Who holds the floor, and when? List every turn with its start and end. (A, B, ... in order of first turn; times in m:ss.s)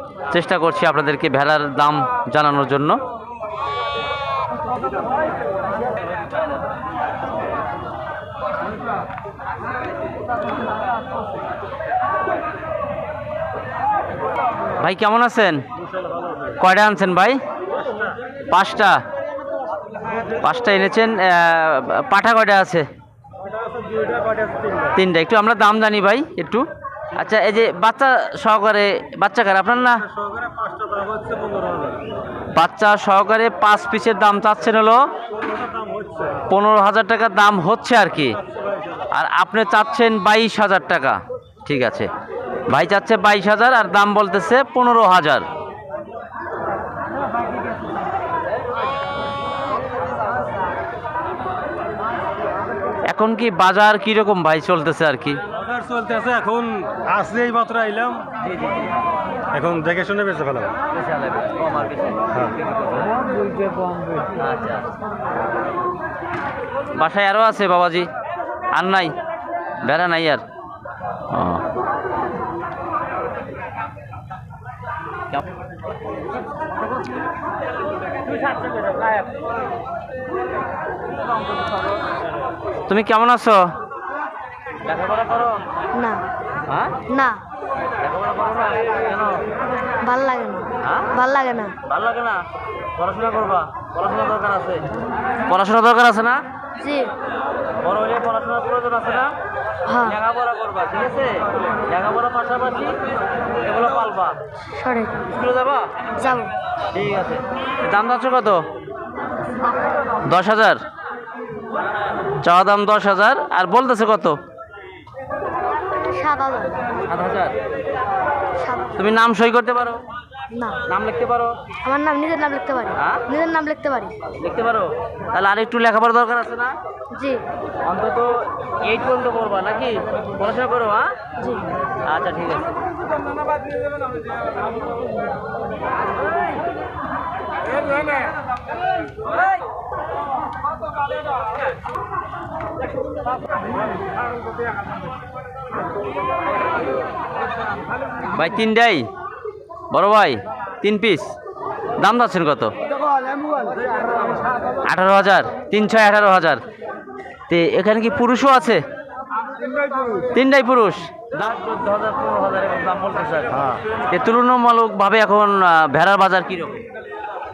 0:00.3-0:03.0 A
0:14.8-0:15.6 A
0:16.6-0:17.4 A
0:18.5-0:19.0 A
0:20.4-0:22.9 A
0:24.9-0:30.0 A
0:30.6-0:31.9 B
0:32.5-0:35.0 A
0:36.5-0:38.4 A
0:39.1-0:42.1 A
0:42.7-0:45.5 A
0:53.1-0:55.4 A
0:55.6-0:58.3 B
0:58.4-0:58.8 A
0:59.5-1:00.7 B
1:00.9-1:03.1 A
1:04.4-1:04.9 A
1:07.0-1:08.1 A
1:08.7-1:09.1 A
1:09.8-1:10.4 A
1:11.3-1:11.6 A
1:22.9-1:23.7 A
1:24.8-1:25.6 A
1:25.9-1:26.2 C
1:26.7-1:27.0 A
1:27.1-1:27.4 C
1:28.0-1:29.4 A
1:30.0-1:31.8 C
1:30.8-1:31.1 A
1:31.9-1:32.4 A
1:33.0-1:34.8 A
1:35.5-1:36.4 A
1:36.8-1:37.1 C
1:37.8-1:39.3 A
1:39.9-1:40.2 C
1:40.0-1:43.0 A
1:43.6-1:44.4 A
1:44.7-1:45.3 C
1:45.3-1:46.0 A
1:46.2-1:46.5 C
1:46.9-1:48.6 A
1:50.3-1:50.8 A
1:52.4-1:54.4 A
1:56.0-1:56.9 C
1:57.0-1:57.6 A
1:58.6-1:59.0 C
1:59.0-2:00.0 A
2:00.5-2:00.8 C
2:00.9-2:01.6 A
2:01.8-2:04.2 C
2:03.0-2:03.3 A
2:04.4-2:06.8 A
2:07.1-2:07.4 C
2:07.9-2:11.1 A
2:11.4-2:11.7 C
2:12.0-2:12.7 A
2:28.3-2:29.1 A
2:29.9-2:31.3 A
2:32.0-2:32.7 A
2:34.9-2:36.6 A
2:37.5-2:38.8 A
2:40.3-2:46.8 A